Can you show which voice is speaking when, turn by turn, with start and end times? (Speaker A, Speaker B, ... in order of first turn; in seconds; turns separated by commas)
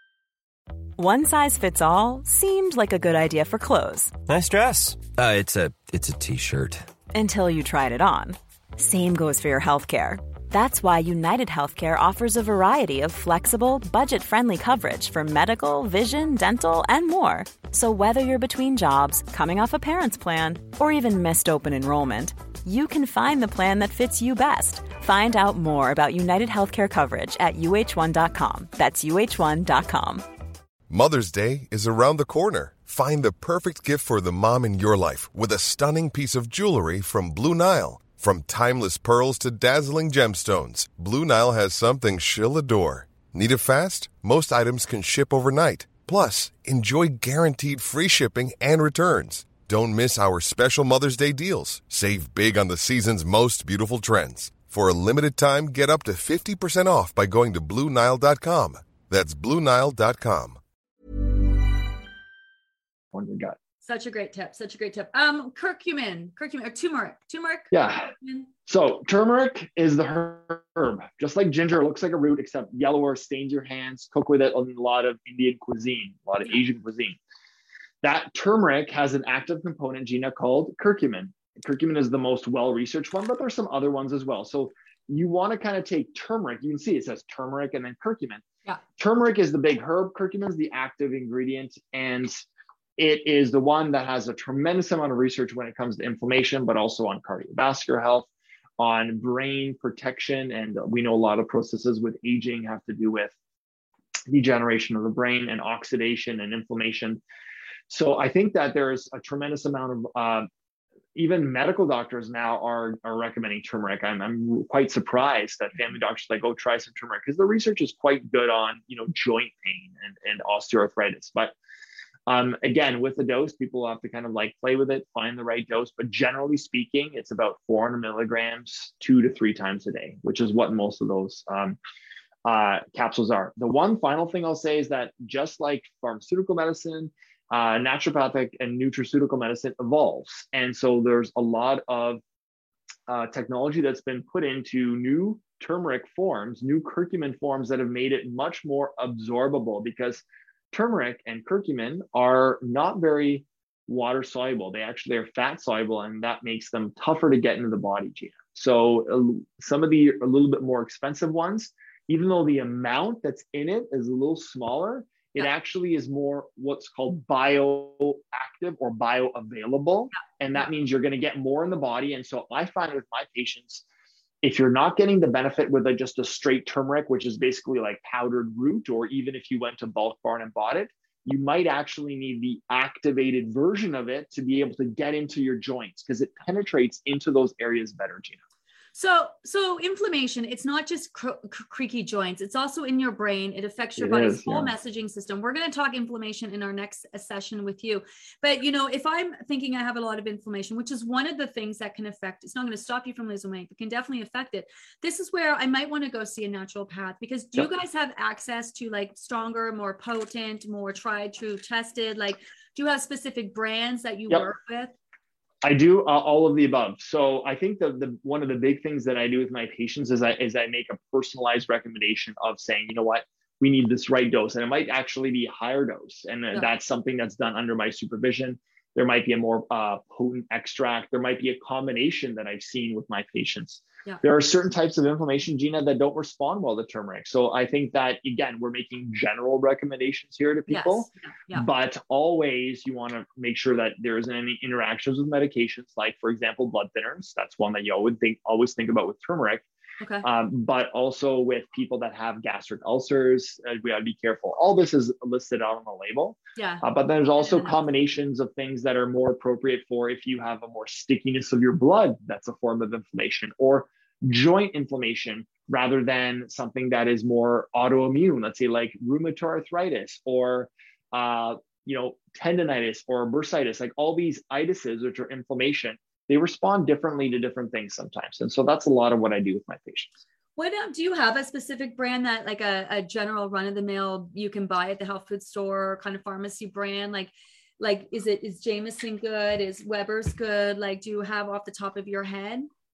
Speaker A: 1.0-4.2, Speaker B: 4.2-6.9, Speaker A: 7.1-30.3, Speaker C: 30.9-60.6, Speaker D: 63.1-63.6, Speaker E: 63.8-68.5, Speaker D: 67.7-68.1, Speaker D: 68.7-77.2, Speaker D: 78.0-88.4, Speaker D: 89.0-92.4, Speaker D: 93.0-103.3, Speaker D: 104.3-107.2, Speaker D: 107.9-110.5, Speaker D: 111.2-121.5, Speaker D: 122.3-131.8, Speaker D: 132.4-142.2, Speaker D: 143.1-173.8, Speaker D: 174.4-188.4, Speaker E: 188.9-214.9, Speaker D: 194.0-194.7, Speaker D: 215.6-249.7, Speaker E: 240.7-241.7, Speaker E: 250.0-250.3, Speaker D: 250.2-280.1, Speaker E: 256.6-256.9, Speaker E: 257.4-257.8, Speaker E: 280.6-292.7